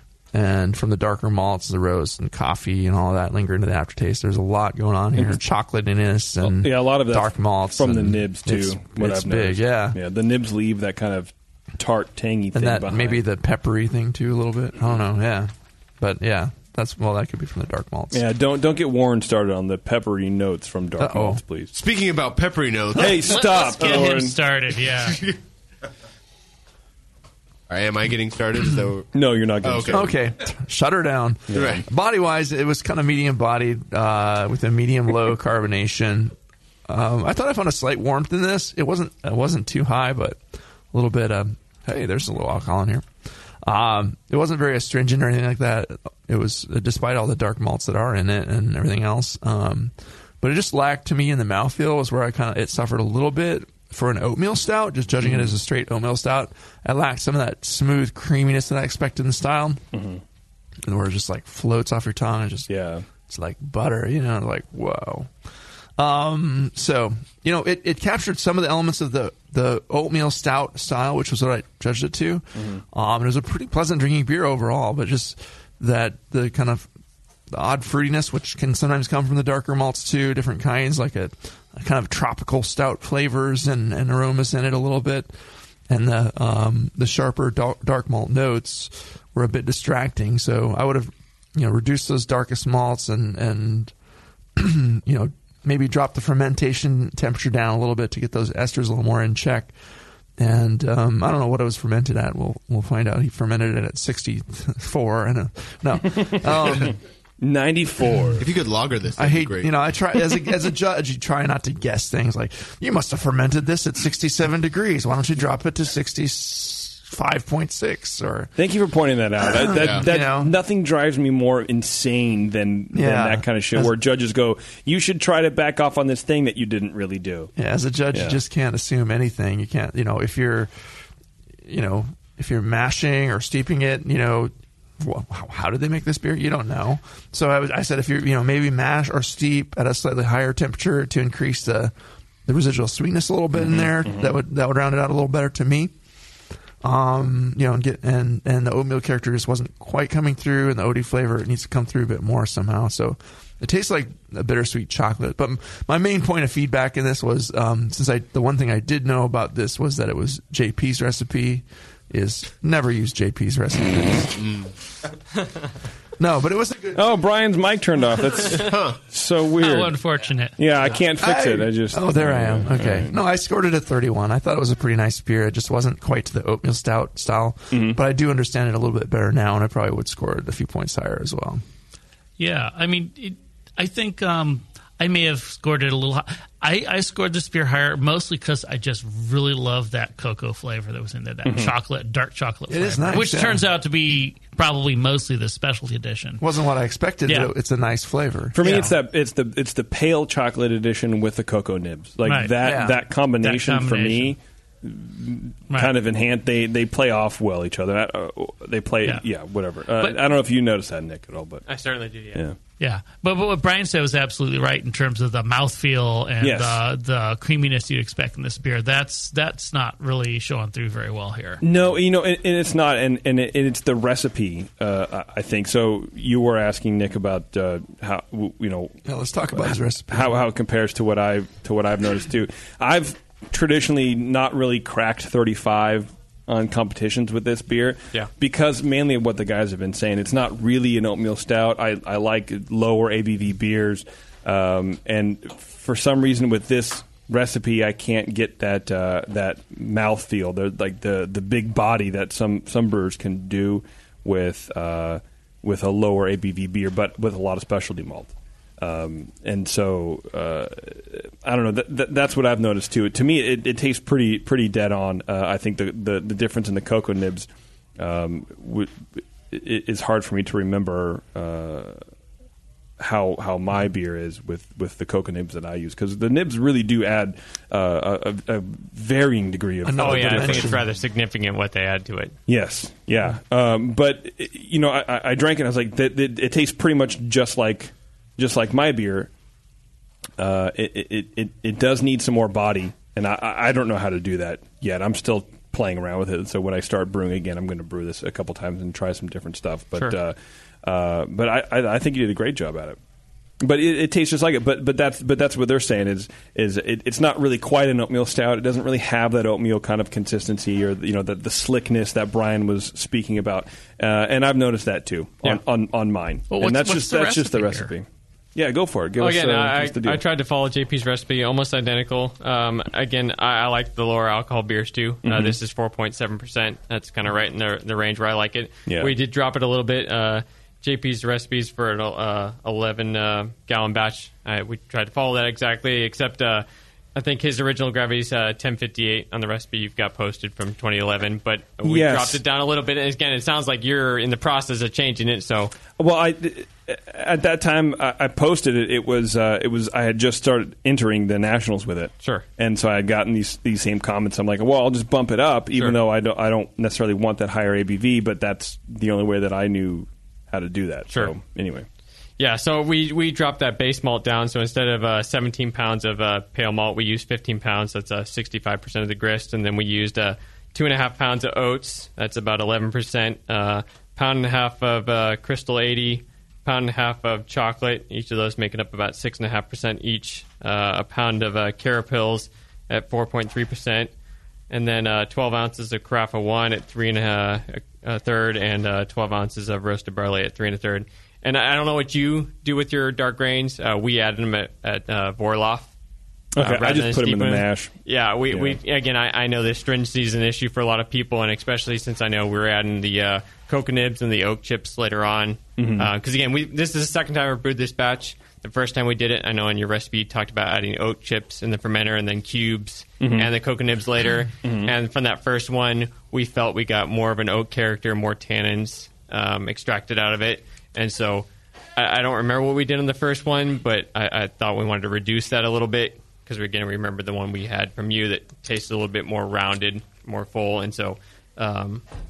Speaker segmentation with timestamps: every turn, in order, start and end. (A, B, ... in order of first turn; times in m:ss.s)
0:00.3-0:10.0 A
0:06.4-0:13.2 B
0:12.5-0:18.2 A
0:18.1-0:21.7 B
0:21.0-0:21.4 A
0:21.7-0:24.1 C
0:23.0-0:24.4 B
0:23.0-0:25.2 D
0:27.7-0:29.1 C
0:29.1-0:30.1 B
0:29.6-0:30.0 C
0:29.9-0:36.4 A
0:31.5-0:31.8 B
0:31.5-0:31.8 C
0:36.9-0:43.1 A
0:43.6-0:59.8 A
0:55.2-0:55.5 B
0:59.9-1:00.2 B
1:00.8-1:02.7 A
1:02.7-1:03.0 B
1:03.3-1:05.3 A
1:06.0-1:16.9 A
1:12.6-1:12.8 B
1:17.5-1:25.3 A
1:25.9-1:33.9 A
1:34.6-1:39.7 A
1:40.4-1:47.0 A
1:46.2-1:48.4 B
1:48.4-1:49.7 C
1:49.2-1:58.5 A
1:58.6-2:07.5 B
1:59.5-2:00.5 A
1:59.8-2:00.0 C
2:02.9-2:03.9 A
2:07.6-2:10.7 A
2:08.1-2:08.4 B
2:11.6-2:21.9 A
2:22.5-2:25.9 A
2:23.5-2:24.4 B
2:26.8-2:44.4 A
2:44.4-2:44.7 C
2:46.2-2:47.1 A
2:47.0-2:50.0 B
2:48.5-2:49.0 C
2:49.6-2:50.6 D
2:50.6-2:53.2 B
2:51.2-3:01.6 A
2:57.7-2:58.0 B
3:02.4-3:16.4 D
3:11.4-3:11.7 B
3:12.7-3:13.7 A
3:16.4-3:18.8 A
3:17.3-3:17.5 D
3:18.5-3:31.6 B
3:18.6-3:18.9 D
3:22.2-3:22.6 D
3:22.6-3:23.0 A
3:23.4-3:24.4 D
3:31.7-3:32.5 E
3:32.8-3:41.6 D
3:36.4-3:36.8 B
3:41.6-3:49.0 B
3:49.0-3:50.4 A
3:49.6-4:32.0 B
4:33.0-4:40.8 B
4:39.8-4:40.8 A
4:40.0-4:42.4 E
4:42.5-4:49.3 B
4:50.4-5:03.0 B
5:03.6-5:20.2 B
5:16.5-5:17.9 D
5:19.2-5:45.8 E
5:25.2-5:25.6 B
5:28.9-5:29.1 B
5:41.8-5:42.4 B
5:46.0-6:01.9 B
6:02.4-6:24.1 E
6:24.7-6:35.9 E
6:36.6-6:37.9 B
6:36.6-7:12.0 E
6:38.5-6:38.8 B
6:45.8-6:46.1 B
6:53.2-6:53.5 B
6:54.6-6:54.9 B